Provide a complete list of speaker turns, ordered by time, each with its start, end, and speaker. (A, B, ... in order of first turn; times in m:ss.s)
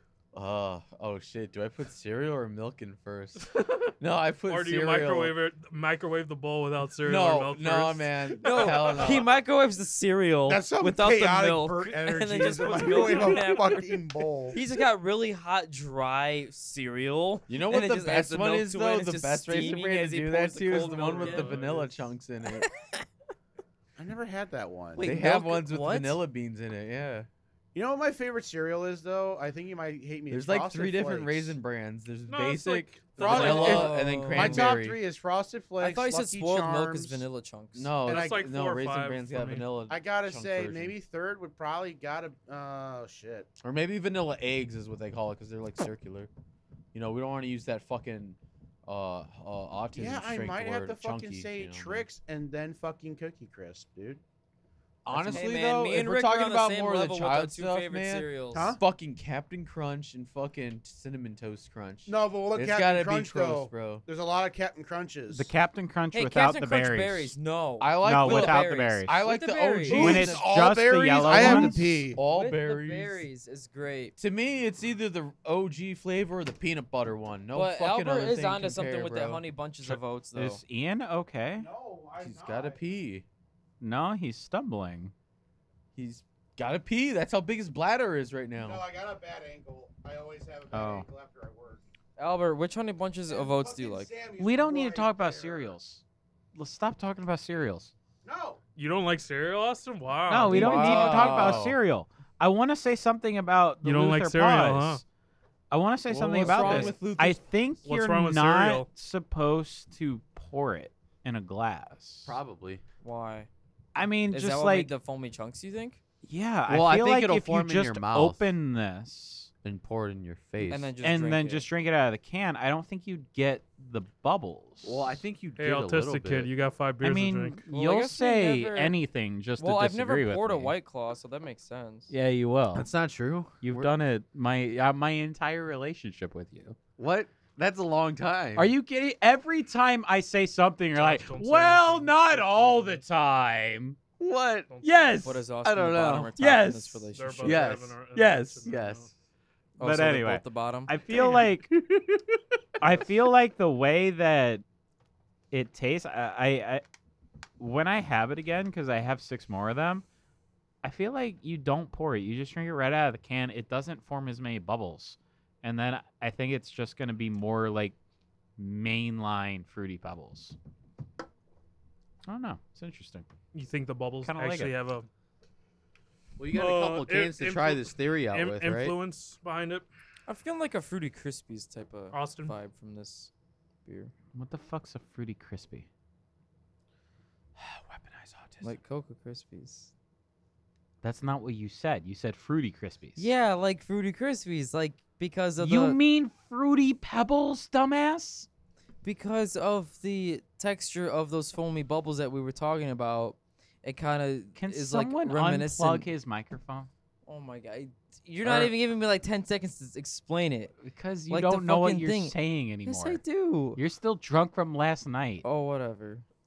0:00.3-0:05.3 A
0:04.5-0:09.2 B
0:07.0-0:09.3 A
0:08.4-0:14.0 C
0:10.5-0:14.6 D
0:14.5-0:21.6 C
0:17.5-0:22.7 A
0:20.7-0:22.0 B
0:24.0-0:25.1 D
0:25.0-0:26.2 C
0:25.0-0:27.3 A
0:27.7-0:31.6 D
0:30.3-0:35.0 A
0:32.3-0:34.0 B
0:33.2-0:37.2 D
0:33.2-0:34.7 C
0:35.8-0:37.9 C
0:37.8-0:40.9 A
0:38.0-0:39.7 B
0:38.1-0:38.4 D
0:39.9-0:43.5 D
0:43.6-0:46.3 A
0:46.9-0:52.0 A
0:49.9-0:54.2 D
0:55.0-1:04.0 A
0:55.1-0:55.5 D
0:55.3-0:58.7 C
0:58.5-0:58.8 D
1:02.1-1:05.5 D
1:05.3-1:07.4 E
1:06.1-1:10.1 C
1:07.8-1:10.6 A
1:08.0-1:09.1 E
1:09.9-1:12.2 D
1:09.9-1:12.0 E
1:11.2-1:13.3 A
1:12.2-1:14.2 C
1:14.2-1:19.4 A
1:17.5-1:20.6 C
1:19.8-1:21.7 E
1:21.6-1:22.8 D
1:22.2-1:23.2 A
1:23.8-1:25.1 E
1:26.0-1:28.8 A
1:28.6-1:31.8 D
1:30.7-1:31.1 E
1:32.2-1:34.1 C
1:33.3-1:35.8 D
1:34.4-1:36.0 E
1:36.6-1:37.9 E
1:38.2-1:38.6 D
1:38.8-1:40.7 B
1:40.3-1:45.0 E
1:40.5-1:41.6 C
1:40.5-1:41.8 A
1:43.8-1:45.0 B
1:45.7-1:52.4 E
1:46.1-1:47.4 A
1:46.4-1:47.0 C
1:47.8-1:48.9 B
1:52.2-1:52.8 A
1:53.0-1:53.5 C
1:54.0-1:54.9 E
1:54.3-1:56.0 C
1:56.2-1:59.5 E
1:56.7-1:58.5 A
1:59.6-2:00.9 A
2:00.7-2:01.7 C
2:01.0-2:05.2 E
2:04.8-2:06.5 A
2:05.6-2:07.6 B
2:07.0-2:10.7 E
2:07.7-2:09.0 C
2:09.6-2:12.1 C
2:12.1-2:12.9 E
2:12.8-2:13.9 A
2:13.6-2:16.8 E
2:17.0-2:18.7 A
2:18.6-2:24.0 E
2:20.9-2:23.0 B
2:24.2-2:24.7 A
2:24.7-2:25.2 B
2:24.8-2:25.4 E
2:25.2-2:27.8 C
2:25.6-2:26.3 A
2:26.4-2:27.1 E
2:27.2-2:29.1 B
2:27.4-2:28.0 A
2:28.2-2:28.6 E
2:28.5-2:29.1 A
2:29.8-2:31.0 C
2:29.8-2:31.7 E
2:31.1-2:32.0 A
2:32.8-2:34.6 E
2:35.5-2:36.8 E
2:37.6-2:40.0 E
2:40.8-2:48.0 E
2:48.6-2:50.6 E
2:52.3-2:53.3 E
2:53.5-2:55.1 B
2:54.2-2:54.7 E
2:56.4-2:59.0 A
2:56.5-2:59.9 B
3:00.3-3:03.3 C
3:02.1-3:02.6 B
3:03.8-3:04.1 C
3:04.3-3:05.9 E
3:07.6-3:08.7 A
3:08.6-3:09.9 C
3:11.0-3:13.3 E
3:13.2-3:16.0 C
3:15.6-3:18.5 E
3:19.0-3:26.1 C
3:24.6-3:26.9 E
3:27.3-3:30.8 C
3:30.8-3:33.2 E
3:31.3-3:33.8 C
3:33.8-3:35.4 E
3:35.4-3:36.2 C